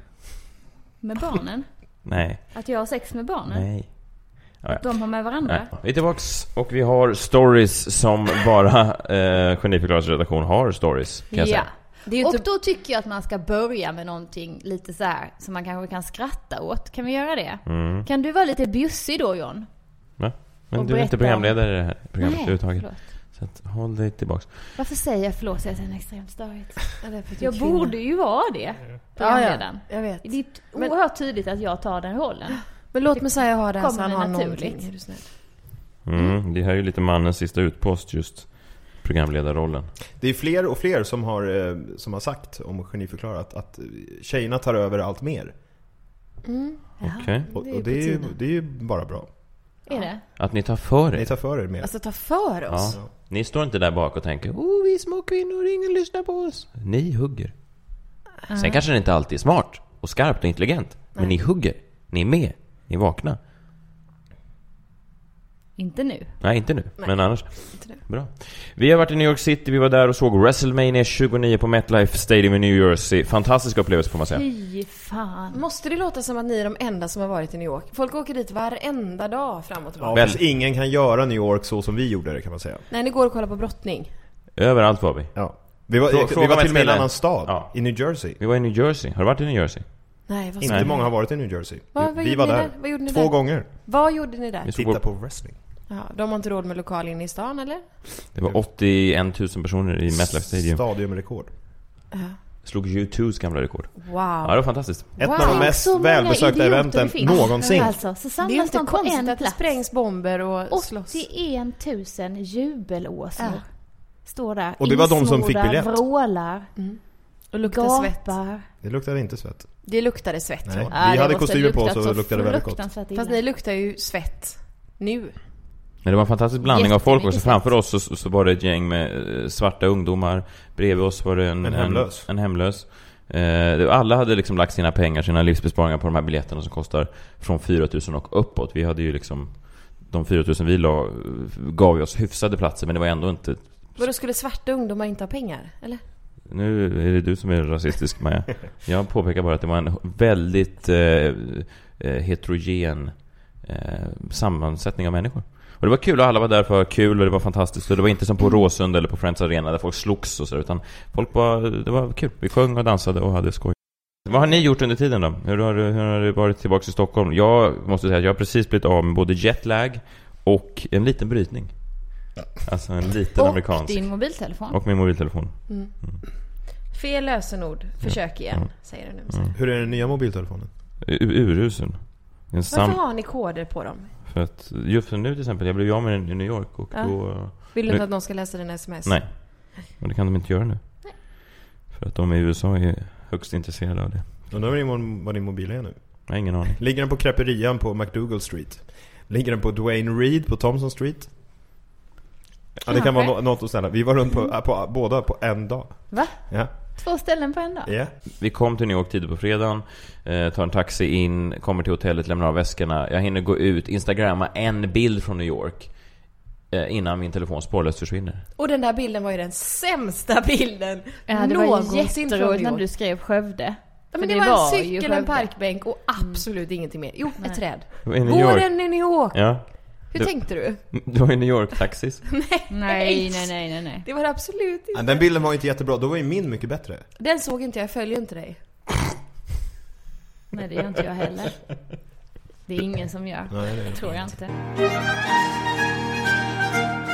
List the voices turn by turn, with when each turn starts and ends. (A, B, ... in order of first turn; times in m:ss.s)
0:01.0-0:05.7 A
0:02.0-0:02.7 B
0:03.5-0:11.7 B
0:11.3-0:20.2 A
0:12.0-0:12.4 C
0:17.6-0:18.1 B
0:20.2-0:24.6 B
0:20.7-0:23.2 A
0:24.8-0:35.0 A
0:27.0-0:28.0 C
0:29.2-0:30.9 C
0:32.5-0:35.7 C
0:36.1-0:39.9 B
0:40.2-0:45.6 D
0:46.4-0:48.3 C
0:47.0-0:48.3 A
0:47.0-0:47.5 B
0:47.5-0:49.3 D
0:49.9-0:50.3 A
0:49.9-0:50.1 C
0:50.4-0:51.3 B
0:51.1-0:51.9 D
0:51.8-0:53.0 C
0:52.7-0:58.0 B
0:58.5-0:58.8 A
0:58.5-1:03.4 B
1:05.8-1:06.4 A
1:06.4-1:14.4 B
1:07.0-1:08.0 C
1:14.3-1:15.6 A
1:15.5-1:20.4 C
1:20.0-1:22.9 D
1:20.1-1:20.4 B
1:22.9-1:24.1 C
1:24.6-1:30.9 B
1:25.4-1:28.4 D
1:30.3-1:34.7 C
1:30.6-1:33.7 D
1:34.6-1:35.0 B
1:34.7-1:35.6 D
1:35.9-1:38.2 C
1:38.3-1:40.8 B
1:38.4-1:38.7 D
1:40.1-1:41.5 D
1:42.1-1:42.4 C
1:42.6-1:45.2 B
1:44.0-1:45.8 C
1:45.2-1:48.0 D
1:45.3-1:50.1 A
1:47.3-1:51.2 C
1:50.7-1:58.7 A
1:53.4-1:53.6 C
1:54.8-1:56.0 D
1:56.8-1:58.4 C
1:58.8-1:59.9 D
1:59.8-2:00.9 C
2:00.6-2:02.8 D
2:00.9-2:03.6 A
2:03.2-2:05.4 C
2:06.0-2:24.0 B
2:06.6-2:07.7 A
2:11.6-2:12.3 D
2:24.0-2:26.0 C
2:26.4-2:56.2 B
2:53.4-2:54.8 A
2:55.7-2:59.8 C
2:58.0-2:58.7 B
2:59.6-3:00.7 D
3:01.0-3:03.0 B
3:02.7-3:04.2 C
3:04.3-3:14.5 B
3:06.9-3:09.7 C
3:14.5-3:21.3 D
3:16.3-3:16.8 B
3:22.8-3:26.7 D
3:22.9-3:23.4 A
3:26.1-3:27.9 A
3:27.9-3:28.1 D
3:28.4-3:38.4 B
3:38.6-3:42.8 C
3:41.3-3:46.8 A
3:44.1-3:51.0 C
3:47.4-3:47.8 A
3:48.0-3:52.2 B
3:52.3-3:55.3 C
3:52.7-3:54.1 A
3:54.9-3:57.1 D
3:57.2-3:58.6 C
4:00.5-4:01.6 A
4:02.7-4:04.5 A
4:03.5-4:04.3 D